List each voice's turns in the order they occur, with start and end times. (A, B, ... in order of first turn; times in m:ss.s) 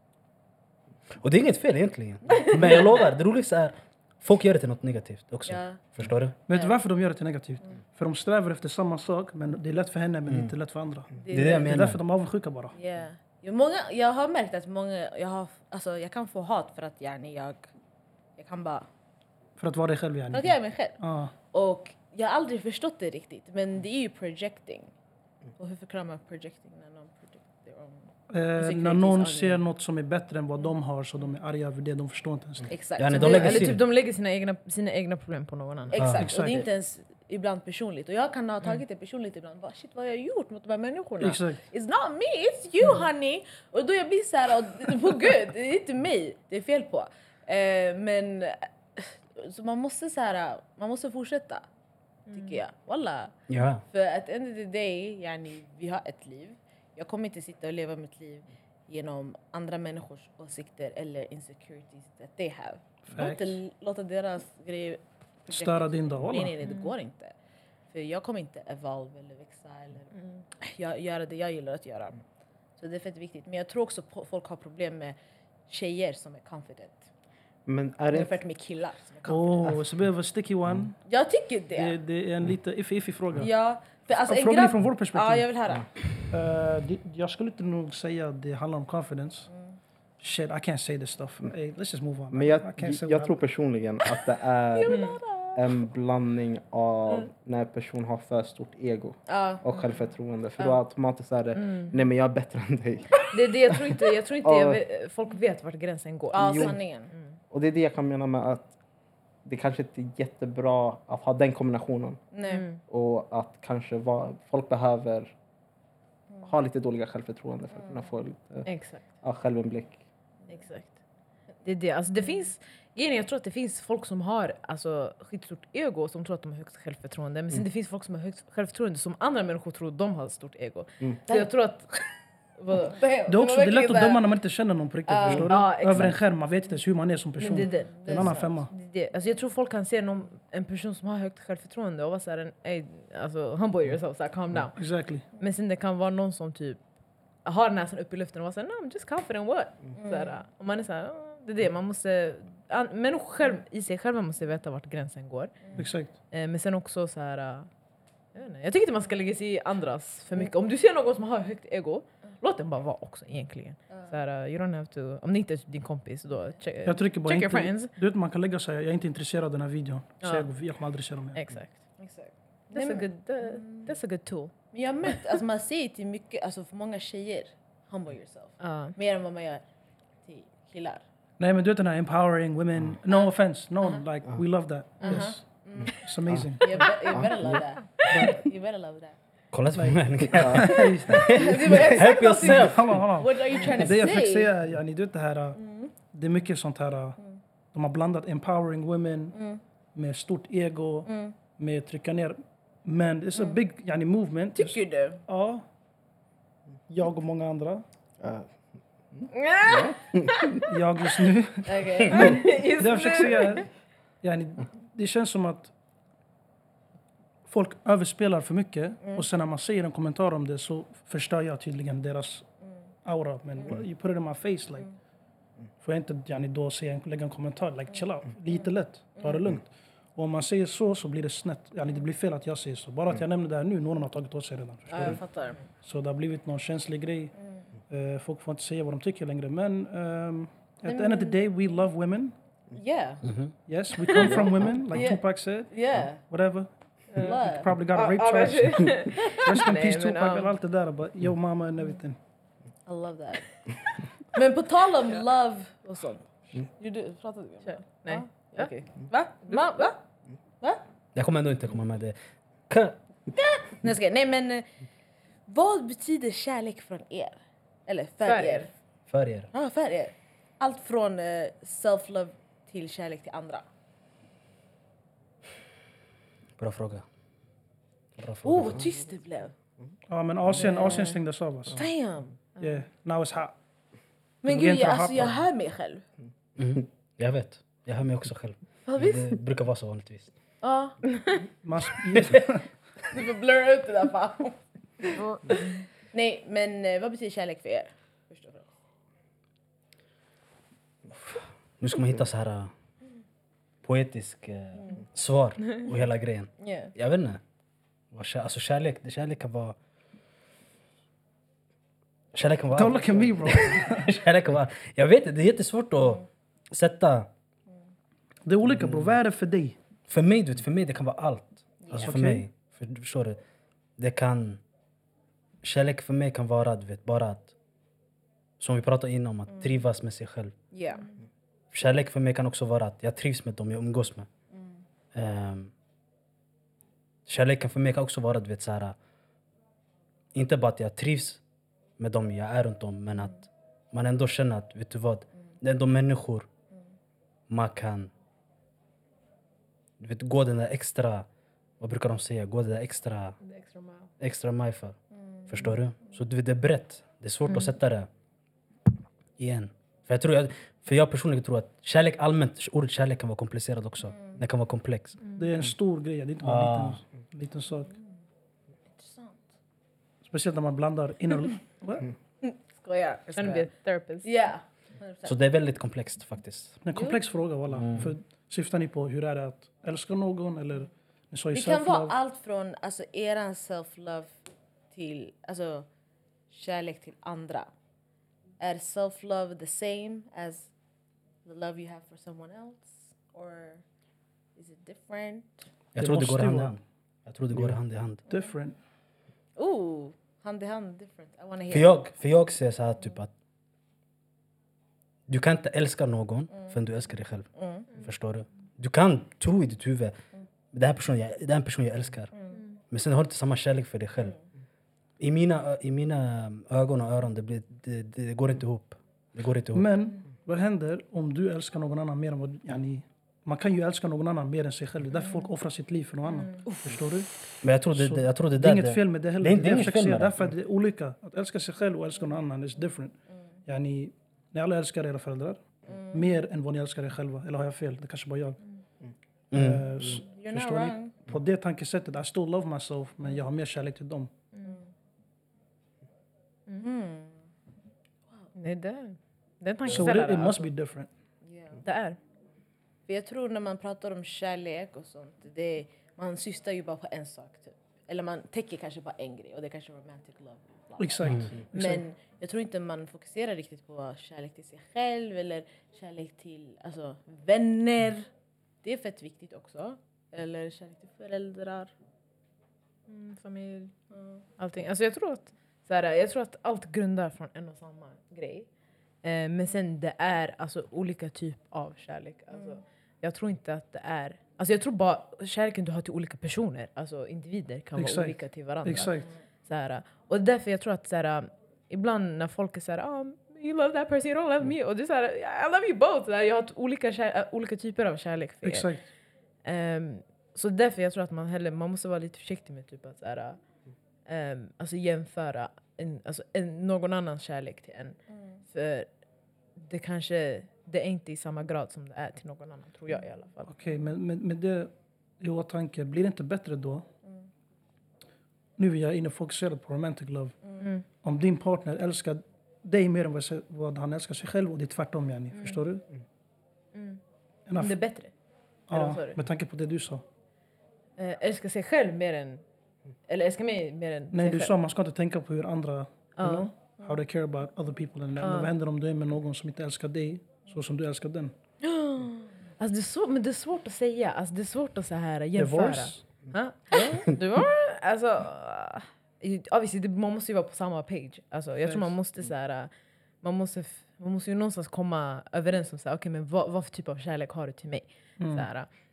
0:01.2-0:06.4 A
0:05.5-0:05.8 B
0:06.5-0:12.7 C
0:06.5-0:06.8 B
0:10.3-0:10.5 A
0:11.2-0:11.8 B
0:11.3-0:12.0 A
0:12.7-0:17.7 B
0:18.4-0:18.9 B
0:19.6-0:21.3 C
0:20.3-0:21.0 B
0:21.5-0:24.9 B
0:25.6-0:29.6 B
0:28.3-0:32.7 C
0:32.7-0:33.7 B
0:33.0-0:33.8 A
0:33.2-0:36.1 D
0:35.9-0:51.7 B
0:36.0-0:36.3 A
0:36.2-0:36.7 C
0:41.2-0:41.6 C
0:52.3-0:52.6 D
0:52.3-0:53.3 B
0:53.5-0:53.8 A
0:53.9-1:07.4 B
1:03.0-1:03.6 C
1:05.5-1:06.6 C
1:06.6-1:06.9 D
1:07.9-1:12.2 B
1:10.2-1:10.4 D
1:12.8-1:15.2 B
1:15.7-1:17.1 B
1:17.7-1:18.4 E
1:18.1-1:19.7 B
1:19.2-1:21.0 C
1:21.1-1:22.0 B
1:21.7-1:23.5 C
1:23.4-1:25.9 B
1:24.1-1:25.5 C
1:26.3-1:29.5 C
1:29.5-1:29.8 B
1:30.2-1:33.3 C
1:32.3-1:43.8 E
1:34.7-1:35.6 B
1:34.9-1:35.2 D
1:39.3-1:40.8 B
1:41.6-1:42.0 D
1:43.3-1:47.3 D
1:44.4-1:44.8 E
1:46.3-1:47.1 B
1:46.5-1:46.7 E
1:47.5-1:48.7 E
1:49.4-1:52.2 E
1:52.3-1:52.6 B
1:52.4-1:52.8 D
1:52.9-1:55.3 E
1:56.4-1:58.7 E
1:58.7-1:59.0 D
1:59.2-2:00.0 E
2:00.5-2:00.9 D
2:01.6-2:11.9 D
2:12.6-2:13.0 D
2:12.8-2:14.2 B
2:13.3-2:18.7 C
2:15.1-2:15.5 B
2:15.5-2:16.2 D
2:17.4-2:24.8 D
2:18.0-2:18.4 B
2:24.8-2:25.2 C
2:25.4-2:26.8 D
2:27.4-2:35.6 D
2:30.0-2:30.4 B
2:35.8-2:36.1 C
2:36.3-2:37.7 D
2:38.4-2:47.9 D
2:43.9-2:44.2 B
2:46.8-2:51.4 C
2:50.2-2:50.5 D
2:51.4-2:51.8 D
2:52.0-2:53.9 B
2:52.7-2:54.5 D
2:54.7-2:59.6 B
2:58.6-2:59.0 D
3:00.2-3:01.0 B
3:01.4-3:06.9 C
3:05.0-3:09.2 B
3:06.3-3:07.6 E
3:08.1-3:08.4 C
3:09.5-3:13.0 A
3:09.7-3:17.2 C
3:10.3-3:10.6 E
3:11.1-3:14.5 B
3:11.6-3:11.9 E
3:15.6-3:15.9 B
3:17.7-3:19.4 C
3:19.3-3:19.6 B
3:20.0-3:25.6 C
3:21.1-3:21.4 B
3:24.5-3:25.2 B
3:26.9-3:27.8 C
3:28.2-3:28.5 E
3:29.2-3:30.6 E
3:29.3-3:30.6 D
3:30.7-3:33.7 C
3:31.6-3:32.5 B
3:32.1-3:33.7 D
3:34.2-3:35.7 C
3:37.5-3:42.5 C
3:43.0-3:44.9 C
3:45.8-3:55.3 C
3:54.9-3:55.6 B
3:55.8-3:57.3 C
3:57.9-4:02.3 C
4:00.8-4:01.4 B
4:02.7-4:03.2 B
4:03.3-4:03.5 A
4:03.7-4:12.2 C
4:04.1-4:04.4 B
4:04.1-4:04.4 D
4:04.9-4:06.2 B
4:07.1-4:07.4 D
4:07.2-4:07.7 B
4:07.9-4:10.6 D
4:12.9-4:13.5 B
4:14.3-4:16.3 B
4:16.8-4:20.0 B
4:17.7-4:18.7 D
4:19.5-4:19.9 D
4:21.2-4:22.2 A
4:22.7-4:23.0 A
4:23.4-4:24.7 B
4:25.5-4:28.7 B
4:28.2-4:28.7 D
4:29.1-4:29.5 A
4:29.5-4:33.7 B
4:36.6-4:37.0 A
4:38.2-4:38.8 A
4:38.4-4:39.5 B
4:40.1-4:41.8 C
4:40.6-4:41.2 B
4:41.7-4:42.4 B
4:42.6-4:42.8 D
4:42.6-4:43.6 C
4:44.4-4:46.0 B
4:44.4-4:45.4 C
4:46.6-4:50.3 A
4:48.9-4:49.4 B
4:50.6-4:51.0 B
4:51.6-4:52.7 C
4:53.1-4:58.7 B
4:55.2-4:55.7 D
5:01.8-5:02.7 A
5:03.8-5:07.4 A
5:06.6-5:06.9 B
5:08.1-5:09.8 A
5:12.3-5:17.3 A
5:12.7-5:14.1 C
5:18.5-5:19.8 C
5:20.1-5:23.4 A
5:21.8-5:22.1 B
5:22.0-5:22.5 C
5:24.0-5:24.6 A
5:25.6-5:27.5 A
5:28.6-5:30.5 A
5:30.7-5:31.1 B
5:31.7-5:34.3 A
5:35.1-5:35.7 A
5:37.3-5:39.0 A
5:40.3-5:41.4 A
5:42.0-5:46.5 A
5:47.5-5:48.1 A
5:50.0-5:51.3 A
5:51.8-5:53.4 A
5:53.4-5:54.1 D
5:54.2-5:55.0 A
5:55.5-5:58.1 A
5:57.5-5:57.7 D
5:59.4-6:05.2 A
6:05.2-6:05.5 D
6:05.4-6:07.9 C
6:06.4-6:07.0 A
6:09.0-6:09.4 B
6:10.2-6:12.1 C
6:12.4-6:13.7 B
6:13.4-6:14.3 D
6:14.2-6:15.4 B
6:15.2-6:16.8 A
6:16.8-6:22.1 C
6:17.7-6:18.1 A
6:21.5-6:24.3 B
6:24.9-6:25.9 B
6:26.5-6:27.7 B
6:28.6-6:30.7 B
6:31.4-6:33.8 B
6:34.6-6:35.7 B
6:36.0-6:38.2 A
6:36.0-6:36.8 C
6:38.3-6:38.8 C
6:39.6-6:42.0 B
6:41.7-6:43.3 A
6:45.3-6:50.2 A
6:47.6-6:47.9 B
6:50.7-6:52.3 A
6:52.9-6:54.4 A
6:55.2-6:59.9 A
6:59.7-7:07.3 C
7:07.6-7:10.5 A
7:07.9-7:13.2 C
7:13.7-7:18.6 C
7:19.5-7:20.2 A
7:19.5-7:24.3 C
7:20.2-7:21.1 B
7:26.8-7:27.4 B
7:28.6-7:30.7 D
7:29.9-7:31.1 C
7:31.4-7:31.8 B
7:31.8-7:32.2 D
7:33.1-7:48.3 B
7:41.0-7:42.0 C
7:48.8-7:51.9 B
7:53.1-7:54.0 D
7:54.6-7:58.7 D
7:59.2-8:18.9 D
8:08.0-8:09.3 C
8:18.6-8:19.0 C
8:19.6-8:23.6 D
8:24.3-8:28.2 D
8:28.3-8:28.6 B
8:28.7-8:29.1 D
8:29.8-8:33.7 D
8:33.7-8:37.1 C
8:38.8-8:40.6 C
8:40.8-8:41.0 D
8:41.2-8:46.0 C
8:47.0-8:47.2 D
8:47.7-8:48.0 C
8:47.8-8:48.3 D
8:48.9-8:50.2 C
8:48.9-8:49.4 D
8:51.2-8:52.6 D
8:53.3-8:54.7 D
8:54.3-9:01.5 C
8:56.4-8:56.7 D
8:58.4-8:58.7 D
9:02.0-9:02.2 D
9:02.8-9:12.9 D
9:05.6-9:06.3 C
9:06.9-9:07.2 C
9:11.8-9:12.1 C
9:13.4-9:18.9 D
9:18.4-9:18.7 C